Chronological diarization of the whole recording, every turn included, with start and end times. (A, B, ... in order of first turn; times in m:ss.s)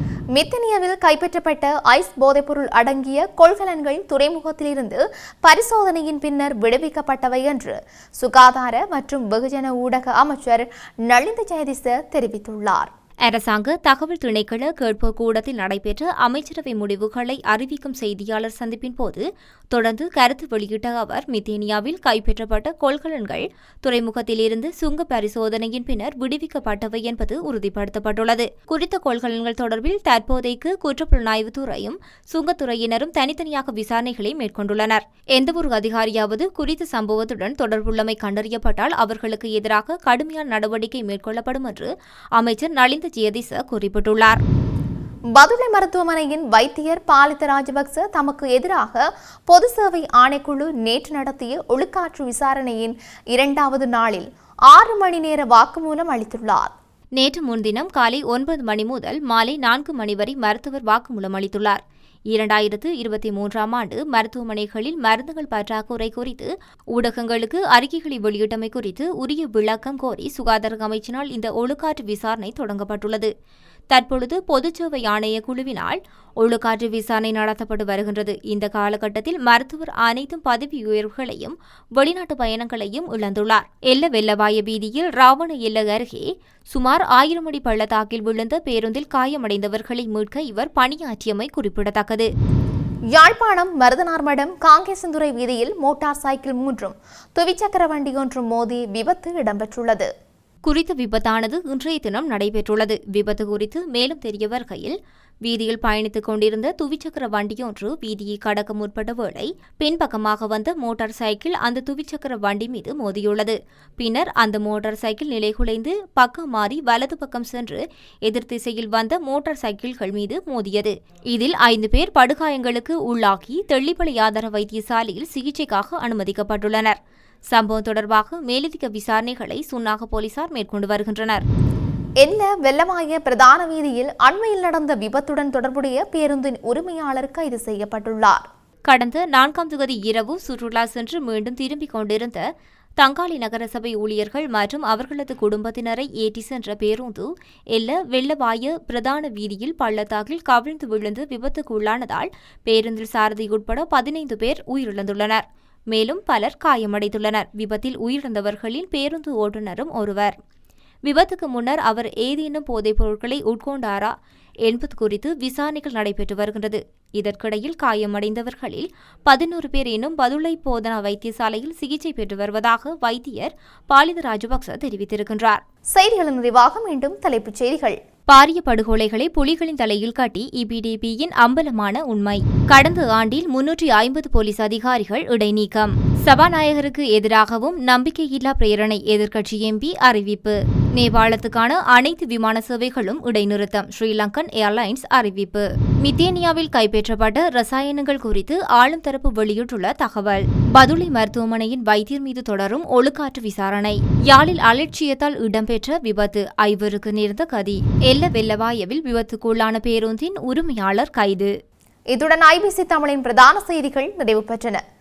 0:00.3-0:12.9 A
0:13.2-0:44.4 B
0:45.3-0:56.7 A
0:57.2-1:01.8 B
1:02.3-1:13.3 B
1:13.9-1:32.3 B
1:33.1-1:40.1 A
1:40.6-2:07.0 B
2:07.5-2:11.4 B
2:12.2-2:18.4 A
2:18.9-2:22.4 B
2:23.0-2:40.3 B
2:41.0-2:44.1 B
2:44.6-2:55.6 B
2:55.9-2:58.0 A
2:58.3-3:31.5 B
3:32.1-3:34.8 A